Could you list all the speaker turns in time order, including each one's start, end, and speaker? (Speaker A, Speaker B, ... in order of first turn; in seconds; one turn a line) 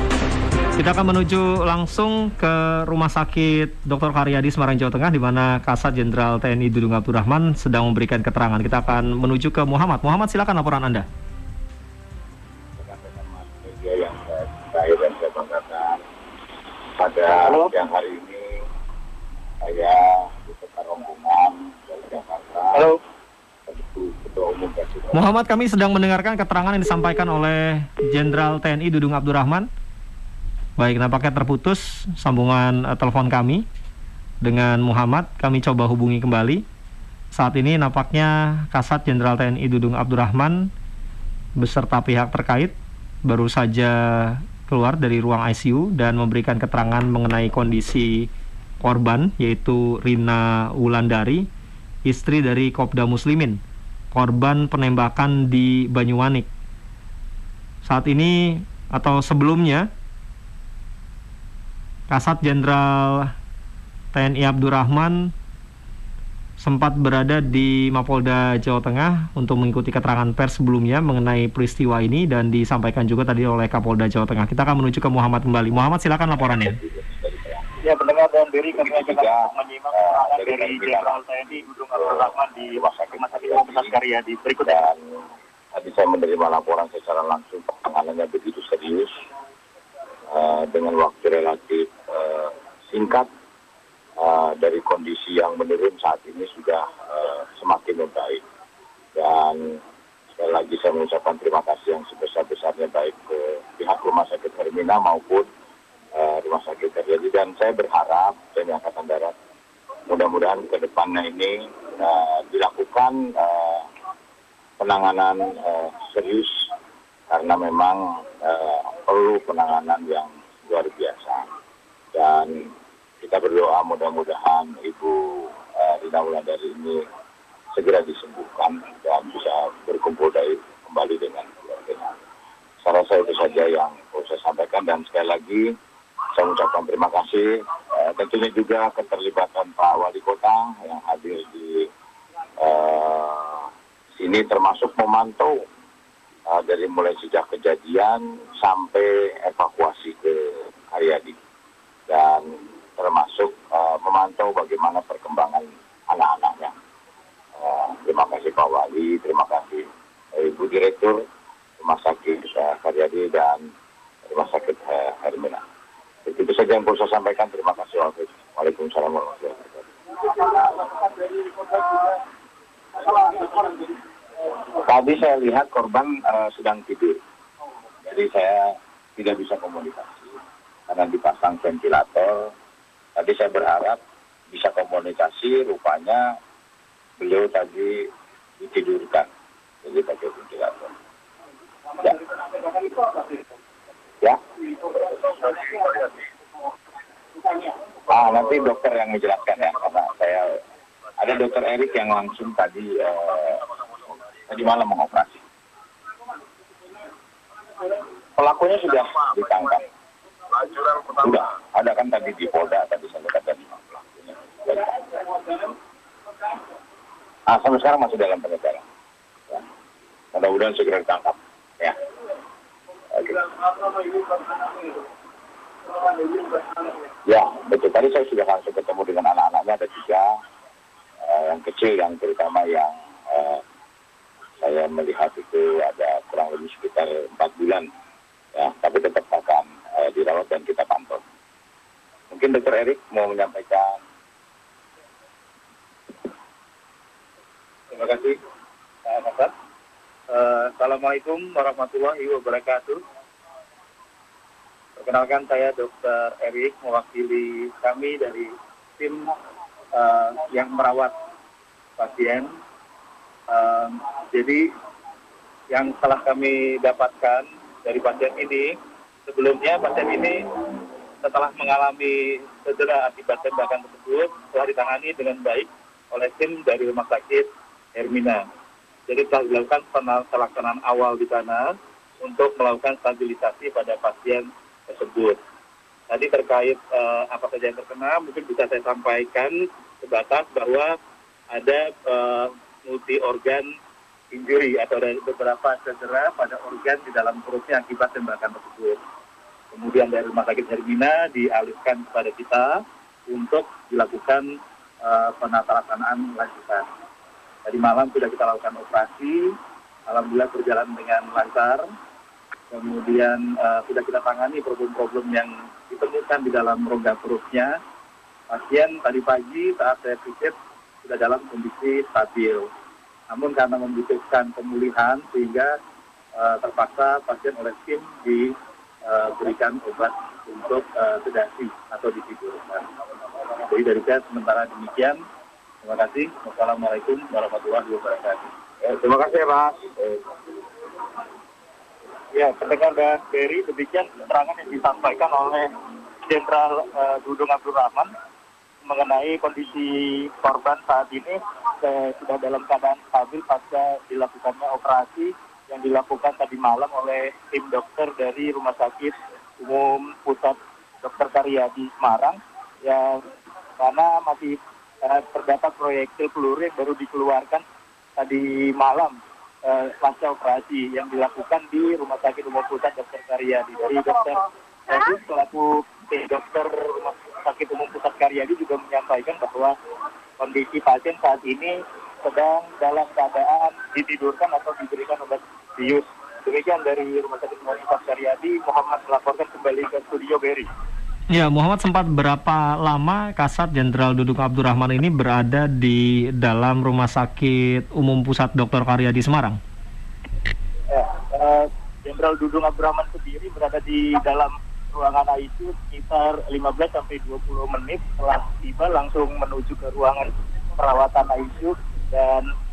Speaker A: 0.8-11.1
Speaker B: 12.8-16.0
Speaker B: 17.0-18.6
Speaker C: 17.4-17.7
Speaker B: 19.6-22.9
Speaker C: 22.7-23.0
Speaker B: 23.7-25.2
Speaker A: 25.1-29.7
Speaker A: 30.8-33.6
Speaker A: 34.4-36.6
Speaker A: 37.3-40.7
Speaker A: 41.6-48.3
Speaker A: 48.8-51.5
Speaker A: 52.0-53.6
Speaker A: 54.1-56.5
Speaker A: 57.8-59.9
Speaker A: 62.1-63.3
Speaker A: 64.1-65.3
Speaker A: 66.6-76.8
Speaker B: 76.5-77.6
Speaker C: 77.8-84.8
Speaker B: 78.8-81.2
Speaker B: 81.9-83.9
Speaker B: 84.6-89.1
Speaker B: 90.3-93.3
Speaker B: 94.2-98.4
Speaker B: 99.2-99.8
Speaker B: 100.4-105.5
Speaker B: 106.1-109.3
Speaker B: 110.1-113.9
Speaker B: 114.8-116.7
Speaker B: 117.3-121.5
Speaker B: 122.1-127.0
Speaker B: 127.7-132.1
Speaker B: 132.8-135.7
Speaker B: 136.3-141.9
Speaker B: 142.6-145.6
Speaker B: 146.5-151.3
Speaker B: 152.1-156.7
Speaker B: 157.6-161.2
Speaker B: 161.8-163.6
Speaker B: 164.3-165.6
Speaker B: 166.2-172.1
Speaker B: 173.1-173.7
Speaker B: 174.8-177.2
Speaker B: 178.0-180.3
Speaker B: 180.9-182.5
Speaker B: 183.2-184.0
Speaker B: 184.5-186.2
Speaker B: 187.2-188.1
Speaker B: 188.6-189.3
Speaker B: 189.8-190.9
Speaker B: 195.4-195.7
Speaker B: 198.1-200.6
Speaker B: 201.2-203.7
Speaker B: 204.5-205.4
Speaker B: 208.4-209.9
Speaker B: 210.6-215.2
Speaker B: 217.5-218.8
Speaker B: 220.3-221.9
Speaker B: 223.1-224.2
Speaker B: 227.2-230.3
Speaker B: 231.2-233.6
Speaker B: 234.6-237.8
Speaker B: 238.5-241.2
Speaker B: 242.3-244.0
Speaker C: 247.9-248.3
Speaker C: 249.1-249.5
Speaker C: 250.3-253.0
Speaker C: 255.0-259.3
Speaker C: 259.9-261.1
Speaker C: 262.0-262.5
Speaker C: 263.5-264.7
Speaker C: 265.7-268.7
Speaker C: 269.3-270.4
Speaker C: 271.2-278.4
Speaker C: 279.1-281.7
Speaker C: 282.2-285.4
Speaker C: 286.1-290.9
Speaker C: 291.5-293.6
Speaker C: 294.3-299.0
Speaker C: 299.7-302.8
Speaker C: 303.3-304.4
Speaker C: 305.0-306.8
Speaker C: 307.6-309.5
Speaker C: 310.1-311.8
Speaker C: 312.7-317.8
Speaker C: 318.5-320.5
Speaker C: 321.0-322.7
Speaker C: 323.3-325.7
Speaker C: 326.4-328.5
Speaker C: 329.1-332.8
Speaker C: 333.7-335.2
Speaker C: 335.8-338.4
Speaker B: 338.8-340.2
Speaker C: 342.3-345.7
Speaker C: 346.3-348.1
Speaker C: 348.9-363.2
Speaker C: 363.8-367.6
Speaker C: 368.2-369.1
Speaker C: 369.6-379.7
Speaker C: 380.4-390.7
Speaker A: 391.3-399.6
Speaker C: 400.9-412.5